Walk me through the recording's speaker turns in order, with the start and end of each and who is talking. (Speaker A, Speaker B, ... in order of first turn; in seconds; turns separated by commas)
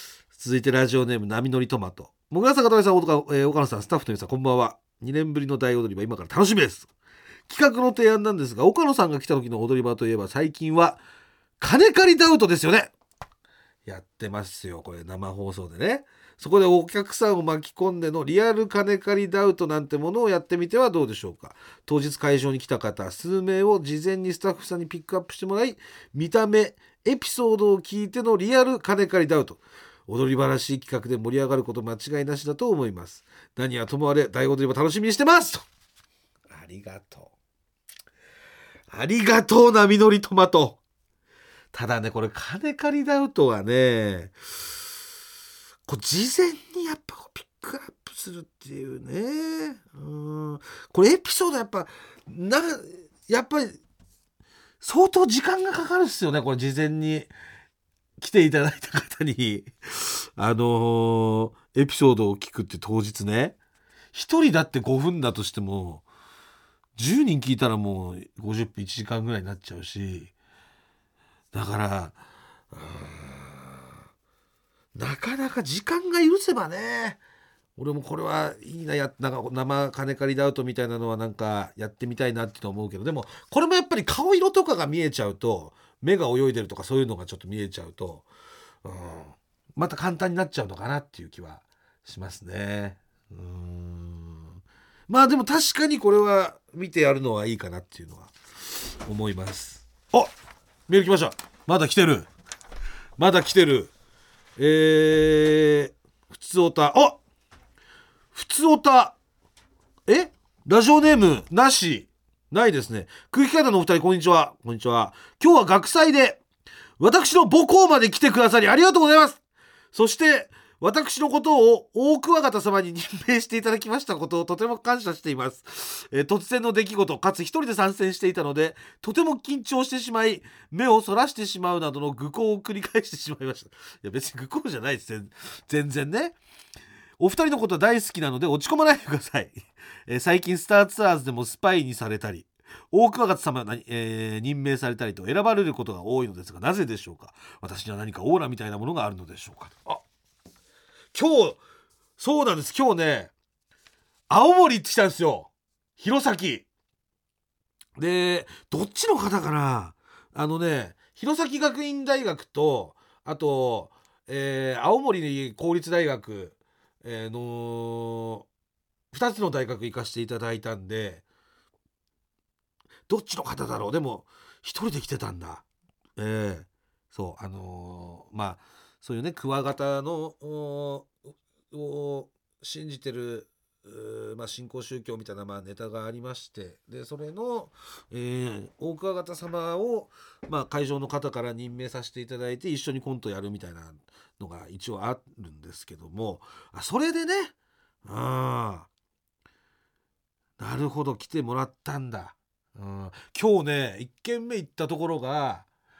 Speaker A: 0.3-6.9, Speaker A: 7.5-11.0, Speaker A: 11.6-12.9, Speaker A: 13.9-35.6, Speaker A: 36.5-37.3, Speaker A: 38.9-40.8, Speaker A: 41.7-44.3, Speaker A: 45.9-53.8, Speaker A: 54.8-57.3, Speaker A: 58.2-63.6, Speaker A: 64.1-66.1, Speaker A: 67.0-70.3, Speaker A: 71.5-72.2, Speaker A: 72.7-73.9, Speaker A: 75.0-77.2, Speaker A: 77.8-88.3, Speaker A: 88.8-94.6, Speaker A: 95.1-100.3, Speaker A: 100.9-102.3, Speaker A: 103.2-103.9, Speaker A: 104.6-107.2, Speaker A: 108.3-109.2, Speaker A: 110.1-116.4, Speaker A: 117.0-119.4, Speaker A: 119.9-136.4, Speaker A: 137.2-150.0, Speaker A: 151.1-151.6, Speaker A: 152.2-153.3, Speaker A: 154.3-156.7, Speaker A: 158.0-168.5, Speaker A: 169.1-171.2, Speaker A: 173.1-175.7, Speaker A: 176.2-181.1, Speaker A: 181.7-197.5, Speaker A: 198.1-198.9, Speaker A: 200.6-205.7